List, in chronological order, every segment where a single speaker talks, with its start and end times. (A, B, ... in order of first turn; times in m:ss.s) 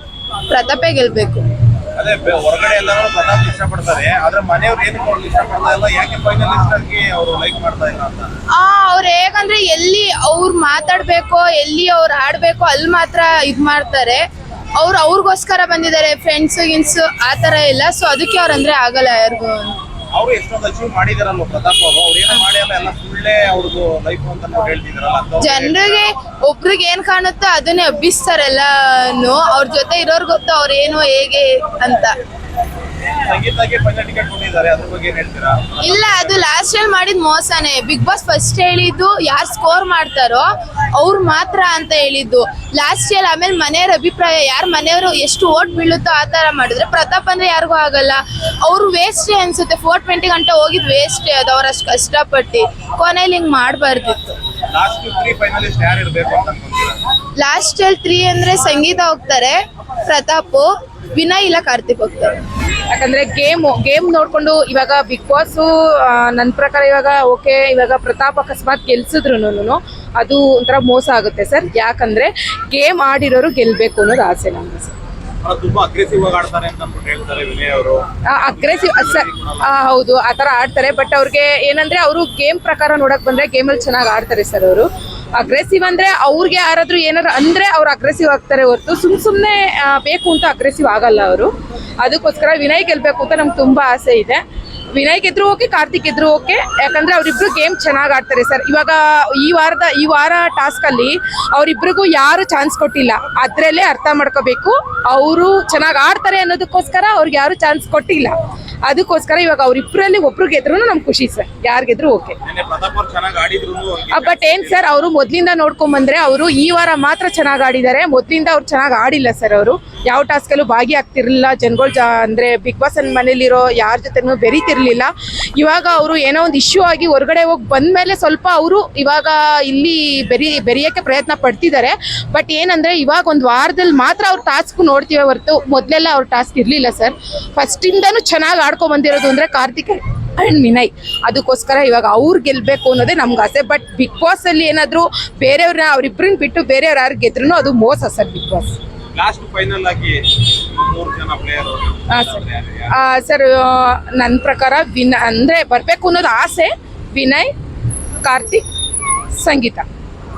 0:00.5-0:01.5 A
0:02.0-0:08.3 B
0:08.5-0:14.2 A
0:14.8-0:19.8 A
0:20.1-0:26.0 B
0:25.4-0:32.2 A
0:33.2-0:36.5 B
0:35.8-0:54.3 A
0:54.7-0:57.0 B
0:57.4-1:02.4 A
1:02.9-1:14.9 C
1:15.4-1:19.7 B
1:18.3-1:34.4 C
1:34.9-1:52.4 C
1:52.4-1:54.8 B
1:54.1-2:28.8 C
2:29.1-2:33.0 B
2:32.1-2:37.5 C
2:38.2-2:38.6 C
2:39.3-2:39.8 C